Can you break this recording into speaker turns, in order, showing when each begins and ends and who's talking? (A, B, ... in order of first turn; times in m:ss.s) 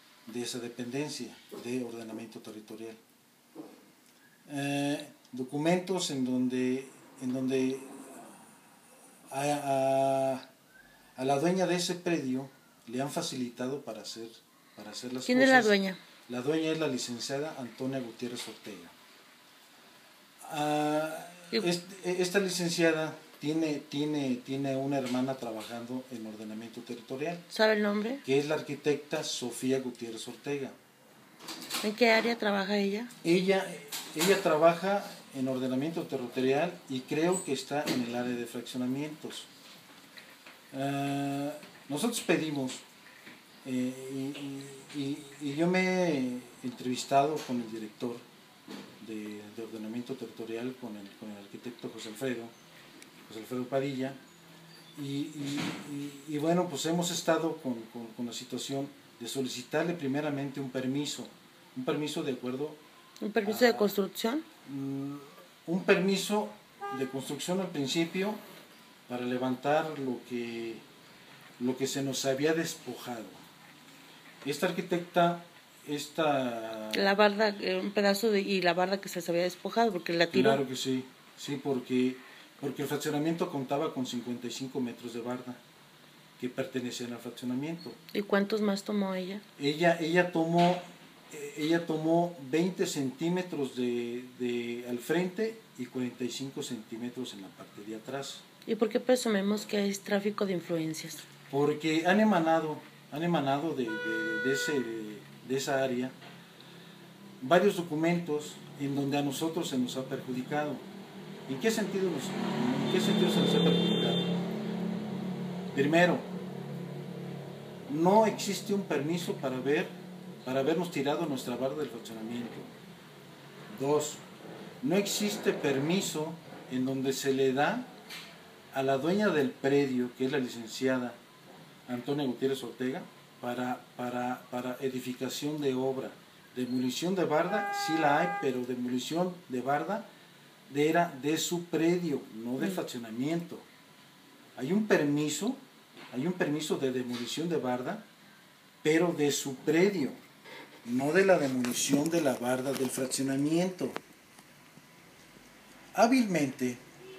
0:00.2-0:03.0 A
0:04.4-0:08.1 A
0:09.3-0:10.5 A
0:11.2-0:15.7 A
0:15.3-0:16.0 B
0:16.3-0:18.9 A
0:20.4-0:27.4 A
0:27.5-0:28.2 B
0:28.2-0:30.8 A
0:31.8-0:33.1 B
0:33.2-0:39.5 A
0:40.7-0:42.8 A
0:43.6-0:48.2 A
0:49.0-0:52.5 A
0:53.3-0:54.2 A
0:55.0-1:02.8 A
1:03.2-1:04.4 B
1:03.4-1:03.9 A
1:04.6-1:08.4 A
1:09.1-1:10.8 A
1:11.6-1:13.4 A
1:14.4-1:17.1 A
1:16.9-1:20.6 B
1:20.3-1:25.6 A
1:26.4-1:28.0 A
1:28.1-1:29.4 B
1:29.6-1:38.4 A
1:38.7-1:41.2 B
1:41.5-1:46.2 A
1:47.4-1:50.8 A
1:51.5-1:54.4 A
1:55.7-1:56.3 A
1:57.9-2:02.8 A
2:03.7-2:04.2 A
2:04.8-2:07.9 A
2:08.7-2:11.2 A
2:11.9-2:20.1 A
2:20.7-2:23.7 A
2:24.6-2:25.6 A
2:26.1-2:28.0 A
2:28.8-2:30.2 A
2:30.8-2:34.0 A
2:35.9-2:36.8 A